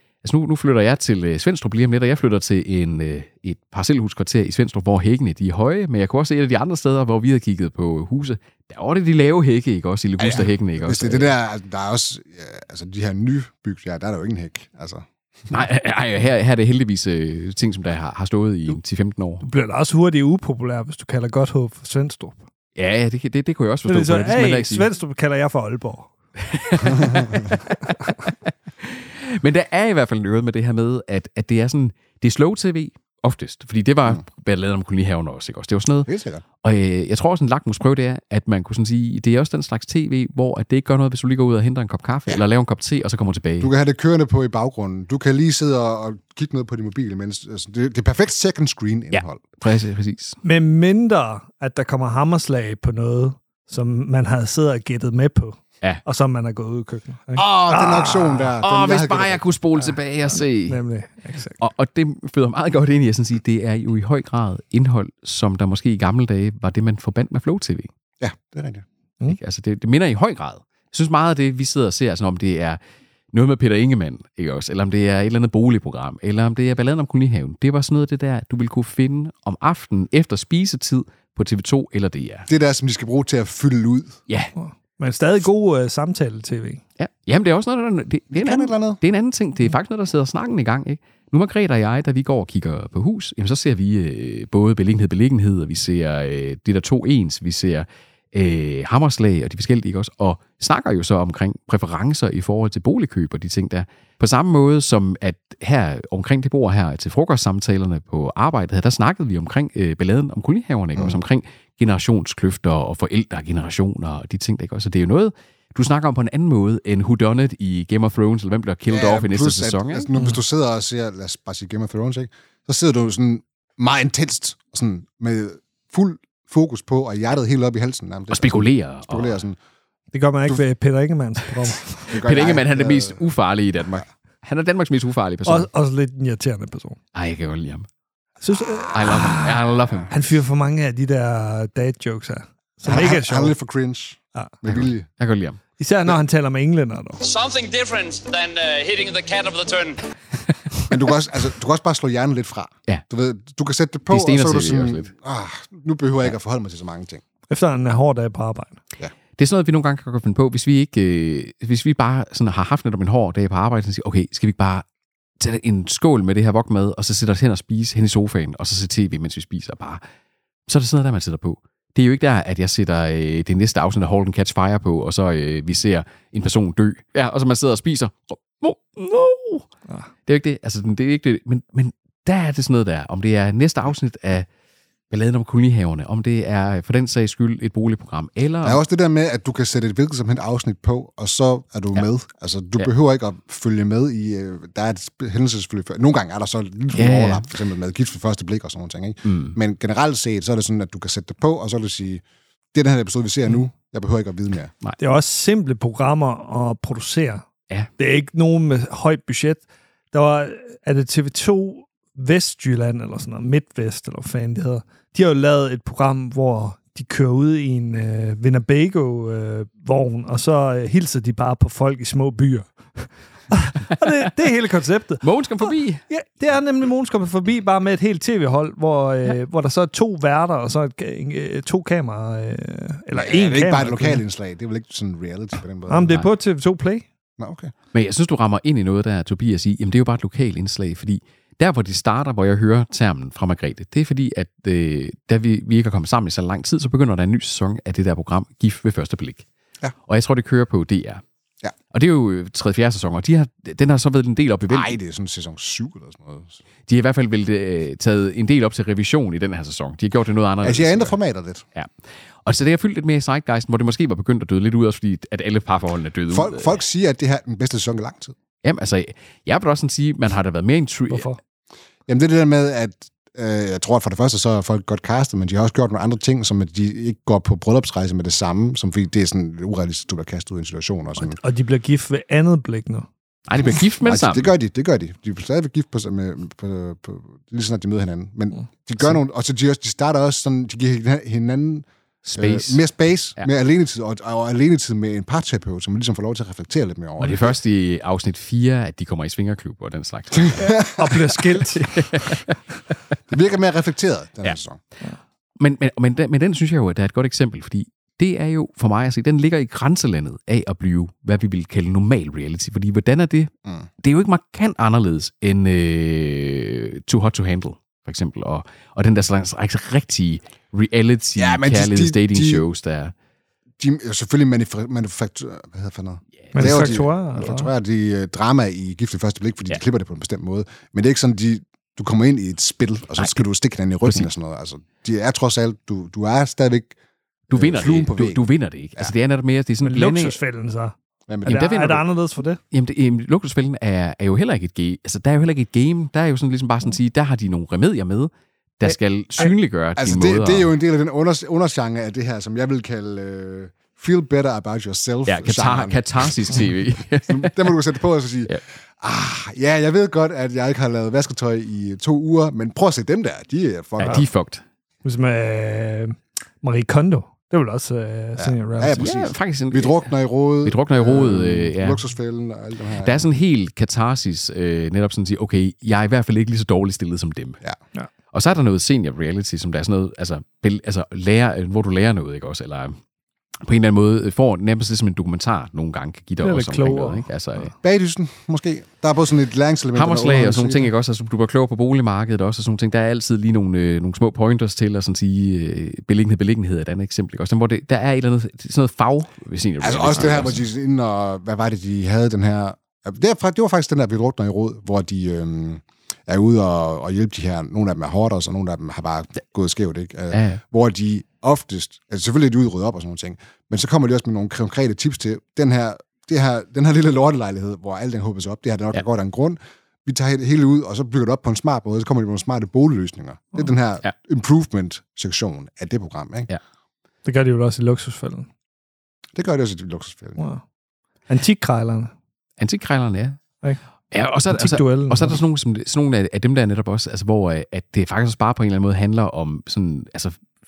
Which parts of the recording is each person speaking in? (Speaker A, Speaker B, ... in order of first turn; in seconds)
Speaker A: 0.2-11.3, 15.5-19.4, 22.8-24.9, 26.4-36.1, 36.6-43.7, 49.1-50.4, 58.4-60.8, 61.6-67.9, 69.3-72.8, 73.3-82.5, 87.0-120.1, 128.3-129.4, 132.1-135.7, 137.1-137.9, 138.9-140.2, 144.7-145.6, 154.1-155.1, 159.4-164.8, 165.4-170.0, 170.7-179.7, 180.3-184.5, 185.1-188.8, 196.9-197.5, 199.2-199.6, 224.0-224.3, 225.2-226.0, 237.9-249.5, 250.1-251.2, 251.9-255.0, 256.9-261.1, 262.5-266.8, 268.6-271.3, 283.5-284.5, 292.2-292.8, 297.2-300.8, 301.4-302.6, 305.6-323.1, 326.5-327.0, 333.2-333.4, 334.0-334.3, 337.5-340.4, 341.5-342.0, 342.7-350.7, 355.3-357.8, 364.0-364.6, 369.0-370.1, 370.6-372.0, 373.0-377.6, 378.3-383.0, 383.6-387.7, 389.9-400.6, 410.3-410.6, 432.6-433.4, 434.1-440.4
Speaker B: 10.2-15.6, 27.0-27.4, 36.1-36.4, 43.6-49.4, 57.4-59.5, 68.2-68.8, 82.5-84.2, 88.4-89.0, 118.9-129.6, 132.1-133.2, 142.9-145.1, 150.9-157.2, 188.6-204.7, 233.1-236.2, 237.4-237.7, 254.7-256.6, 260.6-261.6, 266.3-268.4, 272.1-281.4, 283.6-297.6, 300.5-301.1, 303.3-304.8, 321.4-322.6, 323.8-337.0, 337.5-338.5, 341.3-341.7, 350.0-356.7, 357.3-364.3, 368.4-373.3, 387.8-390.9, 399.8-426.5, 429.4-430.5
Speaker C: 19.4-22.5, 23.9-26.1, 50.4-58.2, 60.5-61.7, 84.6-86.8, 130.1-132.1, 135.5-137.0, 138.4-143.6, 145.8-147.2, 157.5-158.8, 205.0-207.4, 208.0-225.2, 226.1-234.2, 235.9-237.1, 271.1-271.4, 281.2-283.1, 300.6-301.9, 326.5-327.7, 339.8-342.6, 348.9-349.5, 365.0-369.1, 386.4-387.7, 427.2-428.5, 430.4-430.6, 431.3-432.1, 434.5-435.4
Speaker D: 147.2-150.0